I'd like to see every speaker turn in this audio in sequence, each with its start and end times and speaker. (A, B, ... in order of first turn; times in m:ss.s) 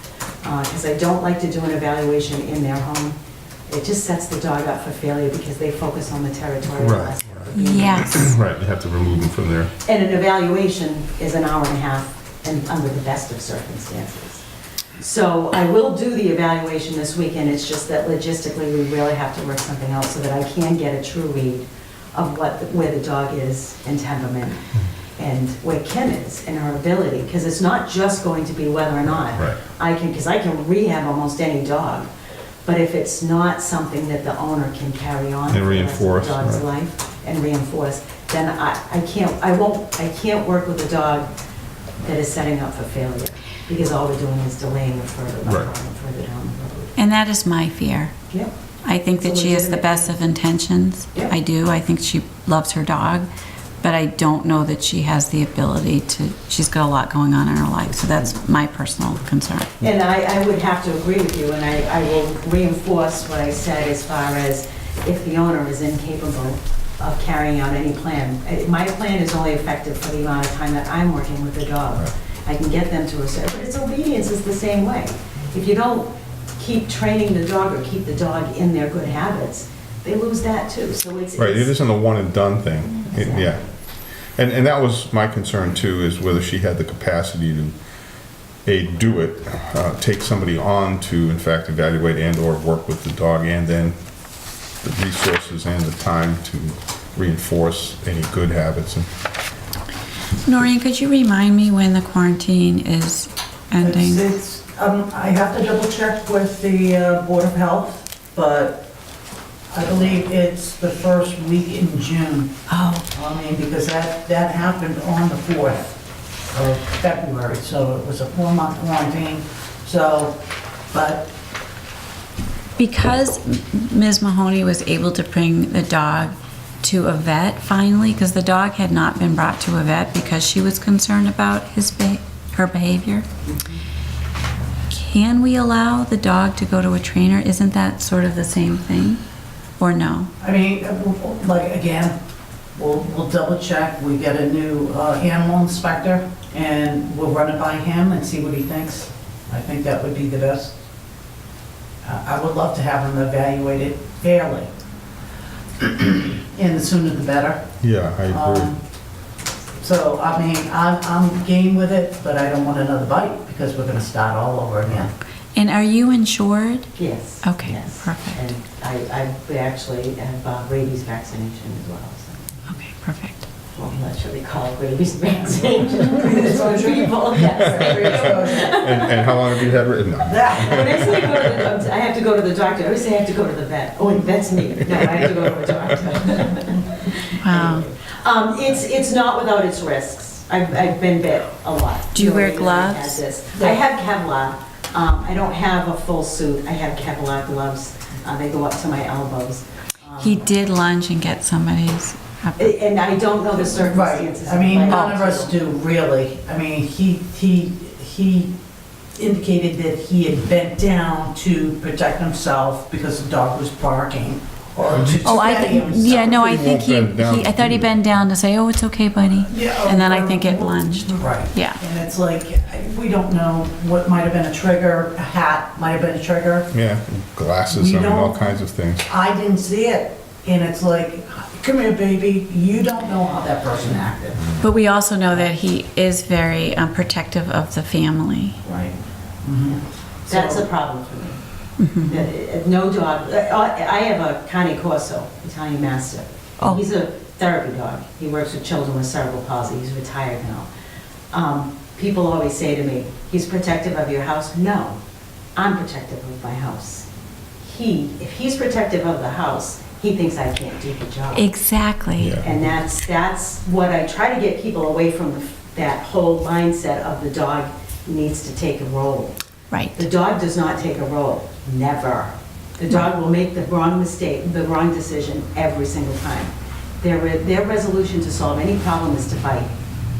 0:00.4-0:03.2 A
0:03.7-0:08.3 A
0:06.8-0:07.5 B
0:07.5-0:08.2 C
0:08.0-0:09.7 B
0:09.8-0:14.4 A
0:15.0-0:24.6 A
0:25.2-0:32.1 A
0:29.2-0:29.6 B
0:32.6-0:41.3 A
0:35.5-0:36.6 B
0:42.0-0:47.0 A
0:45.4-0:45.7 B
0:47.0-0:48.1 C
0:48.8-0:53.3 C
0:49.1-0:50.2 A
0:53.8-0:59.8 C
0:59.8-1:21.7 A
1:21.4-1:23.6 B
1:23.0-1:23.5 A
1:24.4-1:27.8 B
1:28.6-1:33.9 B
1:34.8-1:39.1 B
1:40.4-1:44.3 C
1:43.8-1:48.9 D
1:49.7-1:52.6 D
1:52.7-1:53.0 C
1:53.1-1:55.9 D
1:56.5-2:00.4 D
2:00.9-2:01.3 D
2:02.8-2:13.2 C
2:13.5-2:13.8 D
2:14.9-2:19.2 C
2:19.8-2:20.3 C
2:20.4-2:22.2 D
2:22.8-2:30.8 D
2:32.0-2:34.7 D
2:35.8-2:37.7 D
2:37.8-2:38.7 B
2:38.3-2:38.8 D
2:39.8-2:45.1 D
2:45.5-2:46.9 C
2:47.0-2:52.5 A
2:47.4-2:48.5 C
2:52.7-2:53.5 C
2:53.7-2:59.5 A
2:56.1-2:58.9 D
2:57.7-3:01.5 B
3:00.2-3:01.1 D
3:00.5-3:20.5 A
3:07.4-3:07.8 C
3:12.1-3:13.2 C
3:20.2-3:22.8 C
3:22.6-3:25.5 A
3:23.7-3:28.5 D
3:24.9-3:25.2 C
3:29.2-3:36.4 D
3:34.9-3:35.2 B
3:35.2-3:41.8 C
3:36.0-3:38.1 B
3:39.2-3:46.7 D
3:46.7-3:49.1 B
3:47.7-3:48.5 D
3:49.1-3:54.4 D
3:54.4-3:54.6 B
3:54.6-3:58.6 C
3:58.6-4:00.7 D
4:00.3-4:01.4 A
4:01.8-4:02.2 C
4:02.1-4:10.7 A
4:11.3-4:15.0 A
4:15.6-4:17.1 A
4:17.6-4:21.5 A
4:21.3-4:22.4 C
4:22.2-4:22.7 B
4:22.4-4:29.4 A
4:29.7-4:30.1 C
4:30.0-4:39.7 A